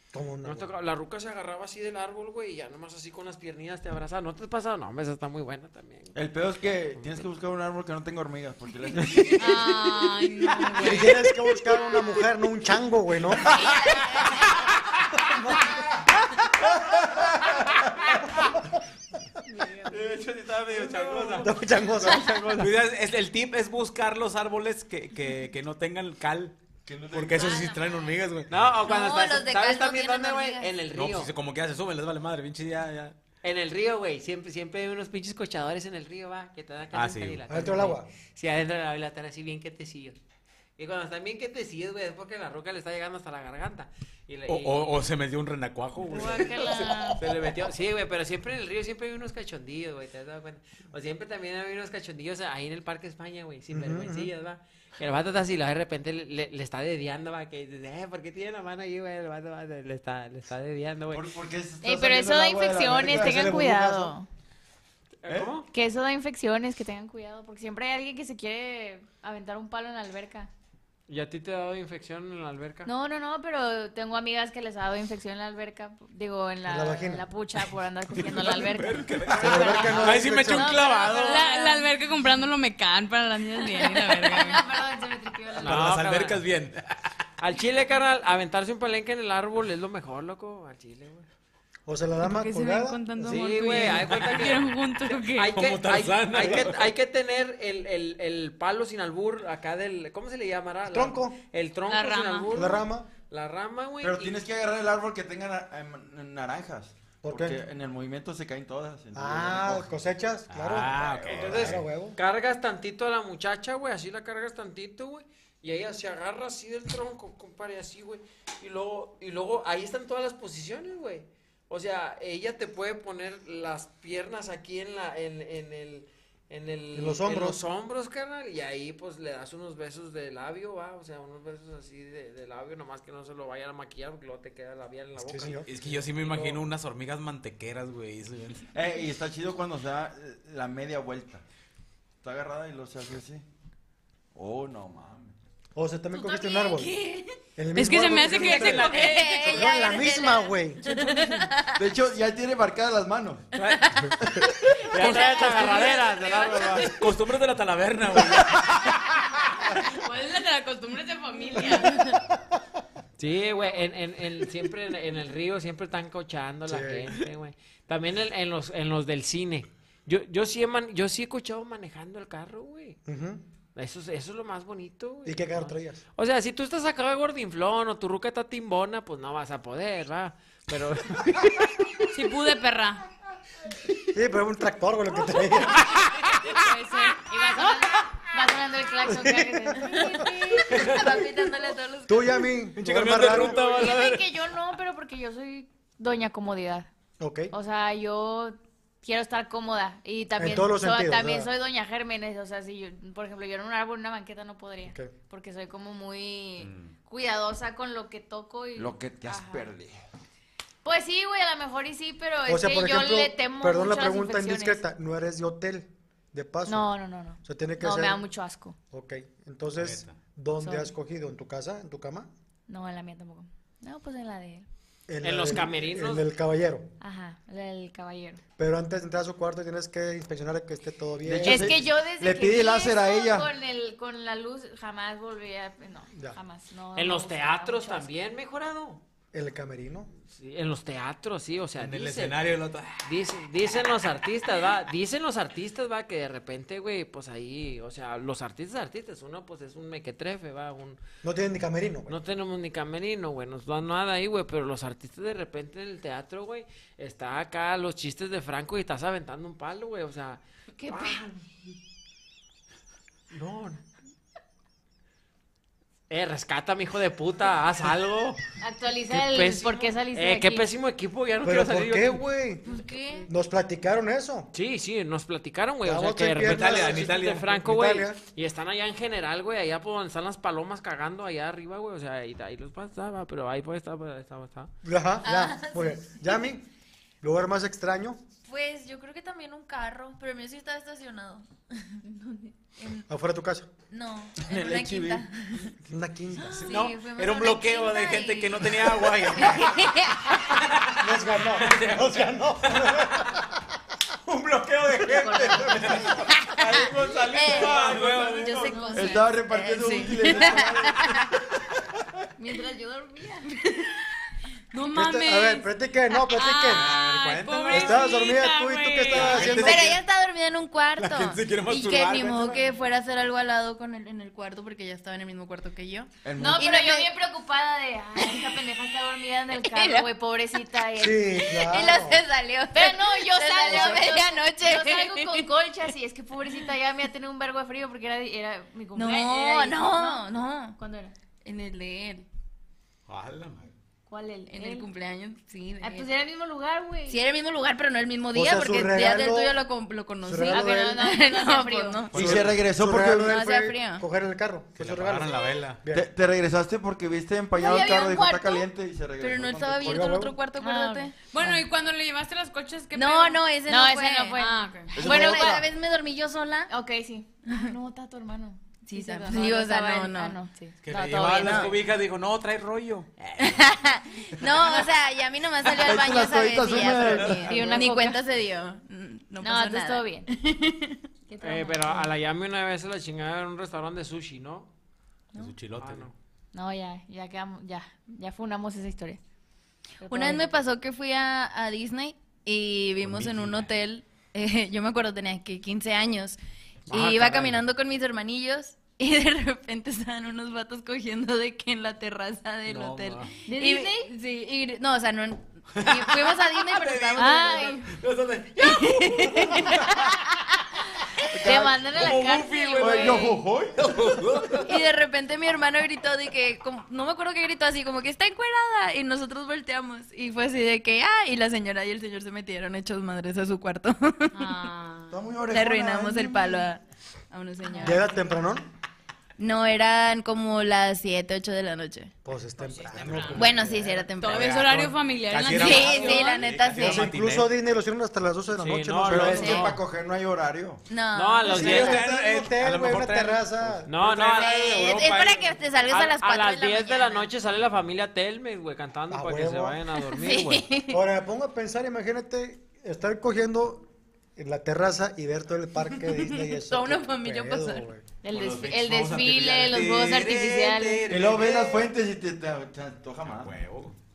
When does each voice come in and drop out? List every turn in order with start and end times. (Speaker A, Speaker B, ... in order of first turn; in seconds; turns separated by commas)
Speaker A: 0.1-0.7, Speaker B: 0.4-6.2, Speaker C: 6.2-10.1, Speaker B: 7.0-7.2, Speaker D: 9.3-11.2, Speaker A: 10.8-13.5, Speaker C: 13.5-14.0, Speaker E: 13.6-14.3, Speaker A: 15.3-15.8, Speaker C: 16.6-18.1, Speaker C: 19.9-21.5, Speaker F: 20.8-21.4, Speaker A: 21.4-22.7, Speaker C: 22.2-22.6, Speaker F: 22.6-26.6, Speaker C: 26.9-27.8, Speaker F: 27.1-28.5, Speaker E: 27.4-28.1, Speaker B: 28.5-31.3, Speaker E: 28.8-30.8, Speaker F: 30.9-33.1, Speaker B: 33.4-40.2, Speaker F: 36.9-37.4, Speaker A: 37.5-38.1, Speaker B: 40.8-45.0, Speaker F: 44.5-47.6, Speaker G: 46.1-47.2, Speaker B: 47.2-61.3, Speaker A: 53.7-54.3, Speaker C: 61.1-63.6, Speaker G: 61.8-64.3, Speaker A: 63.0-64.1, Speaker B: 65.2-65.7, Speaker C: 65.3-65.6, Speaker G: 65.7-70.5, Speaker B: 71.1-72.9, Speaker G: 72.9-81.9, Speaker A: 76.7-77.2, Speaker F: 78.1-81.5, Speaker A: 79.3-80.8, Speaker D: 81.1-84.6, Speaker G: 83.7-86.1, Speaker F: 85.6-87.0, Speaker B: 85.6-86.4, Speaker B: 87.4-91.3, Speaker A: 91.9-93.9, Speaker D: 92.2-95.6, Speaker B: 93.2-104.4, Speaker F: 95.5-96.9, Speaker A: 100.9-101.4, Speaker D: 101.9-102.6, Speaker A: 102.5-103.1, Speaker C: 104.0-110.0, Speaker A: 107.2-107.6, Speaker A: 109.1-112.2, Speaker F: 110.5-111.8, Speaker C: 111.0-111.7, Speaker B: 111.3-135.6, Speaker A: 126.9-127.6, Speaker A: 135.2-136.6, Speaker F: 135.6-138.7, Speaker C: 138.7-141.4, Speaker C: 142.2-143.4, Speaker C: 144.3-145.3, Speaker A: 145.8-146.9, Speaker E: 146.2-147.3, Speaker A: 147.6-151.2, Speaker D: 147.8-149.7, Speaker F: 148.4-149.2, Speaker E: 148.8-151.8, Speaker C: 151.8-153.4, Speaker F: 153.6-154.1, Speaker F: 154.9-155.7, Speaker B: 155.0-156.9, Speaker G: 155.4-156.0, Speaker F: 156.8-159.2, Speaker D: 159.8-162.2, Speaker B: 163.2-173.0, Speaker A: 166.7-167.1, Speaker A: 173.1-173.4, Speaker B: 173.8-181.7, Speaker A: 175.2-176.0, Speaker D: 182.1-183.0, Speaker A: 184.1-186.0, Speaker D: 186.4-187.2, Speaker G: 187.3-190.8, Speaker A: 189.1-190.1, Speaker E: 190.2-192.5, Speaker F: 190.7-191.2, Speaker A: 192.1-193.6, Speaker F: 192.7-194.3, Speaker G: 193.3-196.9, Speaker A: 197.2-197.5, Speaker G: 197.5-209.7, Speaker A: 200.4-201.5, Speaker F: 206.6-206.9, Speaker C: 208.8-210.0, Speaker G: 210.8-214.8, Speaker A: 212.5-216.9, Speaker G: 216.7-218.8, Speaker A: 217.4-218.2, Speaker A: 218.9-222.3, Speaker F: 219.8-220.2, Speaker G: 220.6-220.9, Speaker G: 222.7-224.7, Speaker A: 225.1-226.9, Speaker B: 225.2-226.2, Speaker G: 227.0-228.4, Speaker A: 228.6-231.8, Speaker C: 231.2-233.5, Speaker G: 231.4-238.1, Speaker A: 236.1-236.4, Speaker B: 236.9-239.0, Speaker A: 239.3-240.1, Speaker B: 240.3-242.4, Speaker F: 241.8-243.1, Speaker B: 243.0-251.0, Speaker A: 251.2-252.2, Speaker B: 252.1-261.2, Speaker G: 260.8-261.4, Speaker B: 263.3-263.8, Speaker B: 266.1-268.4, Speaker G: 268.6-270.7, Speaker B: 269.1-272.2, Speaker A: 271.4-274.5, Speaker E: 272.7-273.3, Speaker B: 274.5-284.7, Speaker A: 275.8-278.2, Speaker F: 276.4-277.6, Speaker A: 284.8-286.6, Speaker E: 285.2-286.5, Speaker A: 287.2-288.2, Speaker E: 288.4-292.0, Speaker E: 292.8-293.1, Speaker A: 293.1-293.7, Speaker E: 293.9-295.8, Speaker C: 294.4-295.3, Speaker A: 295.9-296.7, Speaker E: 296.4-300.3, Speaker F: 296.5-303.4, Speaker A: 301.0-303.4, Speaker F: 304.3-309.0, Speaker G: 305.1-306.2, Speaker E: 306.7-311.3, Speaker C: 307.4-311.0, Speaker G: 308.7-309.2, Speaker G: 312.4-313.5, Speaker D: 314.7-319.7, Speaker A: 314.9-316.9, Speaker F: 316.7-318.1, Speaker A: 317.7-320.0, Speaker F: 319.1-320.0, Speaker E: 319.5-327.1, Speaker F: 321.0-322.6, Speaker C: 326.2-326.7, Speaker G: 326.4-331.9, Speaker E: 328.2-328.6, Speaker E: 329.6-330.1, Speaker A: 331.0-332.2, Speaker E: 331.4-335.5, Speaker G: 332.7-341.1, Speaker E: 338.9-340.8, Speaker E: 341.4-342.3, Speaker F: 343.1-343.7, Speaker G: 344.1-344.9, Speaker E: 344.5-346.1, Speaker G: 345.8-347.2, Speaker E: 347.1-352.4, Speaker A: 348.3-349.6, Speaker A: 350.2-351.1, Speaker G: 350.5-352.1, Speaker C: 352.1-353.4, Speaker A: 352.1-356.1, Speaker E: 353.2-354.1, Speaker F: 354.8-355.8, Speaker C: 355.9-360.2, Speaker E: 357.6-358.7, Speaker E: 359.2-361.1, Speaker A: 359.8-360.4, Speaker G: 360.6-361.1, Speaker D: 361.2-363.5, Speaker E: 362.9-364.4, Speaker G: 363.6-365.7, Speaker D: 364.4-365.1, Speaker C: 364.9-365.7, Speaker E: 365.0-366.7, Speaker G: 366.7-371.8, Speaker E: 367.5-367.7, Speaker E: 368.8-370.4, Speaker F: 370.8-373.6, Speaker E: 373.4-380.9, Speaker F: 374.4-374.8, Speaker C: 375.7-377.9, Speaker F: 377.1-377.5, Speaker G: 377.5-378.2, Speaker G: 379.4-380.3, Speaker G: 381.3-382.1, Speaker B: 381.4-384.7, Speaker F: 385.4-386.1, Speaker B: 385.8-386.1, Speaker G: 386.5-389.2, Speaker G: 390.0-390.6, Speaker E: 390.1-396.4, Speaker F: 393.0-393.7, Speaker F: 396.9-397.5, Speaker E: 396.9-407.8, Speaker F: 402.7-403.3, Speaker G: 403.5-404.1, Speaker F: 405.7-409.9, Speaker G: 407.2-407.9, Speaker E: 408.6-409.7, Speaker G: 409.4-409.9, Speaker C: 411.3-412.2, Speaker G: 411.4-413.4, Speaker F: 411.8-414.8, Speaker C: 412.8-414.1, Speaker E: 414.6-424.5, Speaker D: 424.3-425.2, Speaker C: 425.1-426.5, Speaker E: 425.5-428.1, Speaker A: 427.8-428.7, Speaker E: 429.4-432.1, Speaker A: 432.2-434.1, Speaker D: 432.6-433.6, Speaker F: 433.1-433.4, Speaker E: 433.3-434.5, Speaker D: 434.2-436.6, Speaker F: 434.2-437.5, Speaker E: 435.5-437.1, Speaker A: 436.8-439.6, Speaker B: 438.6-439.8, Speaker C: 439.1-440.8, Speaker E: 439.3-439.8, Speaker E: 440.9-441.8, Speaker B: 441.1-442.0, Speaker A: 441.4-443.9, Speaker F: 441.4-445.6, Speaker B: 443.9-444.8, Speaker E: 444.4-447.3, Speaker B: 445.9-450.7, Speaker A: 449.1-449.8, Speaker E: 450.1-451.0, Speaker A: 450.9-458.1, Speaker E: 455.9-457.9, Speaker G: 458.2-461.1, Speaker F: 458.3-461.8, Speaker C: 461.1-463.6, Speaker F: 463.2-464.0